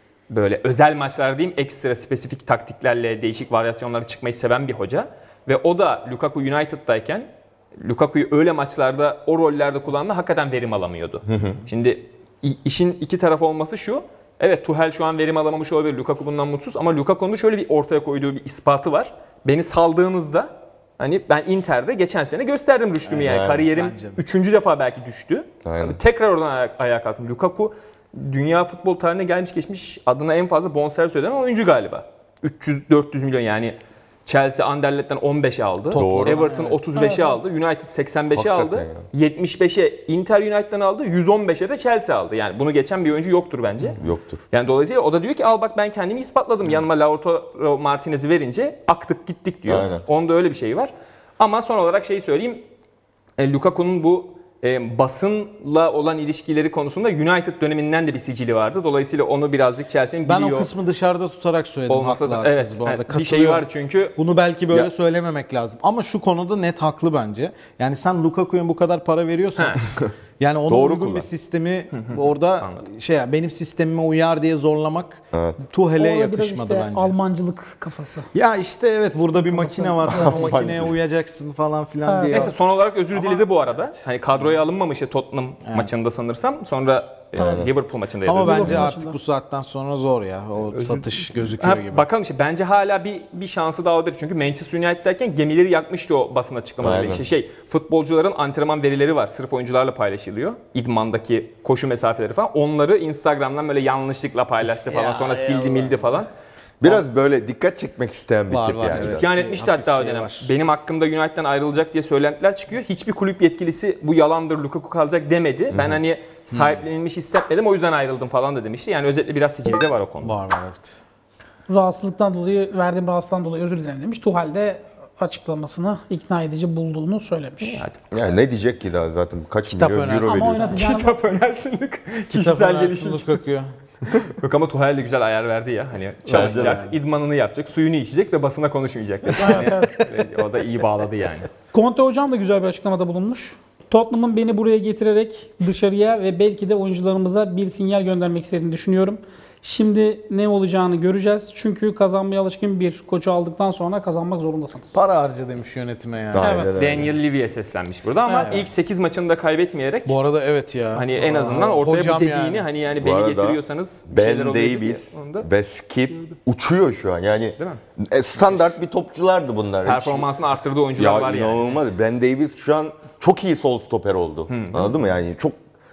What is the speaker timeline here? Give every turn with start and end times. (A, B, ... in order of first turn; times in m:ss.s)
0:00.3-0:44.0 A
0:11.3-0:11.6 B
0:23.1-0:23.7 B
0:23.5-0:24.2 C
0:25.6-0:26.0 B
0:35.9-0:36.5 B
0:35.9-0:36.8 C
0:36.9-0:37.4 D
0:38.3-0:39.0 B
0:44.0-0:44.4 B
0:44.5-0:52.6 A
0:49.6-0:50.0 B
0:53.4-1:00.7 A
1:00.2-1:09.8 C
1:01.9-1:04.2 A
1:09.6-1:09.8 A
1:10.4-1:17.2 C
1:10.7-1:11.2 B
1:11.9-1:12.8 A
1:15.3-1:15.6 B
1:16.0-1:18.3 D
1:18.3-1:22.5 C
1:19.3-1:20.9 D
1:20.1-1:20.9 B
1:22.0-1:22.5 D
1:22.3-1:28.9 A
1:23.1-1:24.0 C
1:25.6-1:25.9 C
1:27.4-1:27.7 B
1:28.2-1:32.0 C
1:28.4-1:29.2 D
1:30.7-1:46.3 A
1:36.8-1:37.2 B
1:44.6-1:46.1 C
1:46.8-1:49.3 B
1:48.5-1:50.5 C
1:48.9-2:00.4 A
1:55.7-1:56.0 B
2:00.2-2:00.9 C
2:01.7-2:07.8 D
2:07.6-2:08.0 A
2:08.1-2:10.8 B
2:09.7-2:10.8 C
2:10.2-2:11.2 D
2:10.7-2:13.4 A
2:12.3-2:13.7 C
2:14.1-2:21.5 A
2:16.3-2:16.8 B
2:16.3-2:16.9 C
2:19.4-2:20.0 D
2:19.4-2:19.8 C
2:21.7-2:34.9 D
2:34.9-2:36.7 C
2:36.3-2:37.1 B
2:36.4-2:36.7 D
2:36.7-2:40.2 A
2:38.3-2:38.6 D
2:40.0-2:42.7 C
2:40.9-2:45.5 A
2:42.9-2:50.3 B
2:49.8-2:51.9 A
2:51.0-2:55.6 B
2:54.5-2:55.0 A